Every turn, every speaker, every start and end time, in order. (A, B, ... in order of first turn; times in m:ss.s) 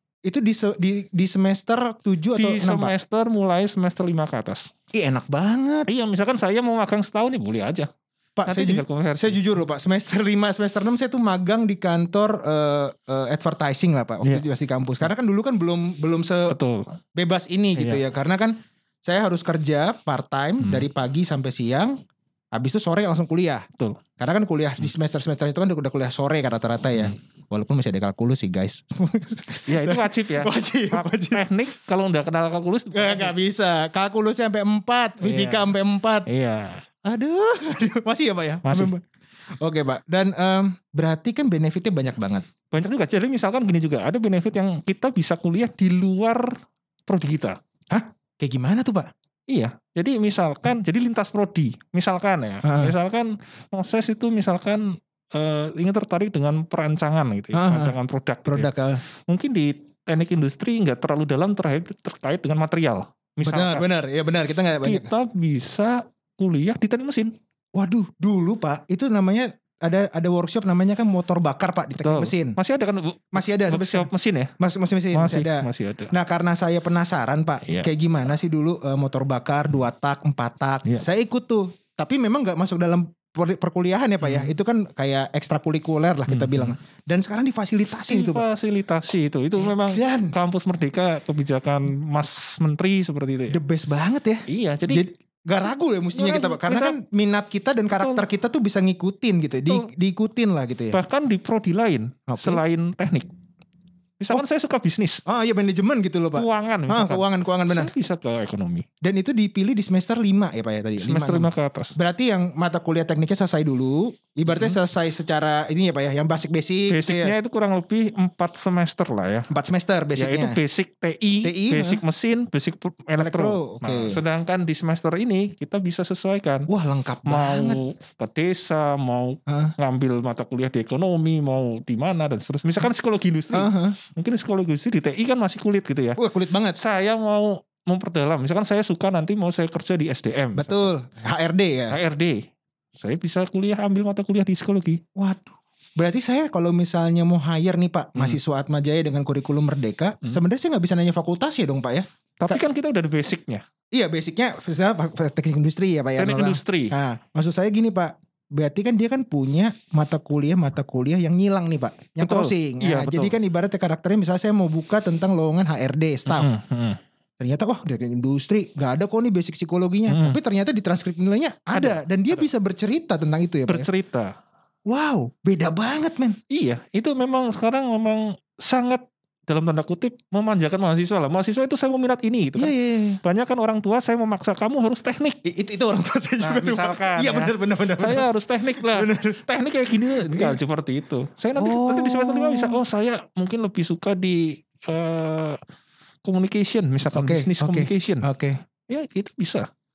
0:00.2-0:02.9 A
0:02.4-0:04.7 B
0:04.9-0:05.9 A
0:05.9-0:07.9 B
0:08.4-0:16.6 A
0:08.5-0:09.4 B
0:16.5-0:16.9 B
0:17.1-0:22.0 A
0:17.8-0:18.0 B
0:20.6-0:20.9 B
0:22.5-0:23.6 A
0:24.2-0:31.4 A
0:29.7-0:33.3 B
0:32.9-0:36.3 A
0:35.2-0:35.7 B
0:36.2-0:36.8 B
0:37.0-0:39.0 A
0:38.6-0:38.9 B
0:39.6-0:42.4 A
0:42.7-0:47.6 B
0:47.9-0:49.1 A
0:49.5-0:58.7 B
0:52.6-0:52.9 A
0:57.5-0:59.0 A
0:59.3-1:03.8 B
1:03.4-1:05.1 A
1:04.8-1:07.3 B
1:07.7-1:12.6 A
1:12.0-1:14.5 B
1:13.3-1:14.1 A
1:14.6-1:28.4 A
1:15.1-1:16.1 B
1:17.6-1:17.9 B
1:24.2-1:24.5 B
1:26.3-1:26.8 B
1:28.1-1:33.6 B
1:29.6-1:30.3 A
1:33.5-1:41.0 A
1:34.5-1:35.0 B
1:36.1-1:37.0 B
1:37.9-1:38.2 B
1:40.9-1:43.3 B
1:42.3-1:42.6 A
1:44.2-1:45.2 B
1:45.2-1:47.9 A
1:46.3-1:48.9 B
1:49.0-1:57.3 A
1:51.0-1:52.0 B
1:54.5-1:54.8 B
1:56.9-1:59.5 B
1:59.5-2:00.6 A
2:00.2-2:06.7 B
2:01.4-2:02.0 A
2:03.2-2:04.2 A
2:06.7-2:07.8 A
2:07.2-2:16.2 B
2:09.5-2:09.7 A
2:13.5-2:14.0 A
2:16.2-2:16.8 A
2:16.7-2:20.9 B
2:20.6-2:22.0 A
2:21.9-2:25.0 B
2:25.2-2:32.6 A
2:32.4-2:33.6 B
2:33.9-2:46.6 A
2:36.2-2:36.9 B
2:42.2-2:43.4 B
2:46.3-2:47.0 B
2:47.4-2:53.9 A
2:50.1-2:50.4 B
2:51.7-2:52.4 B
2:53.7-2:54.3 B
2:54.9-2:56.4 A
2:56.5-3:05.4 B
3:02.6-3:03.2 A
3:05.4-3:08.3 A
3:06.4-3:15.6 B
3:08.8-3:09.4 A
3:10.2-3:10.6 A
3:11.6-3:12.8 A
3:16.2-3:18.3 B
3:17.1-3:18.6 A
3:18.9-3:19.7 B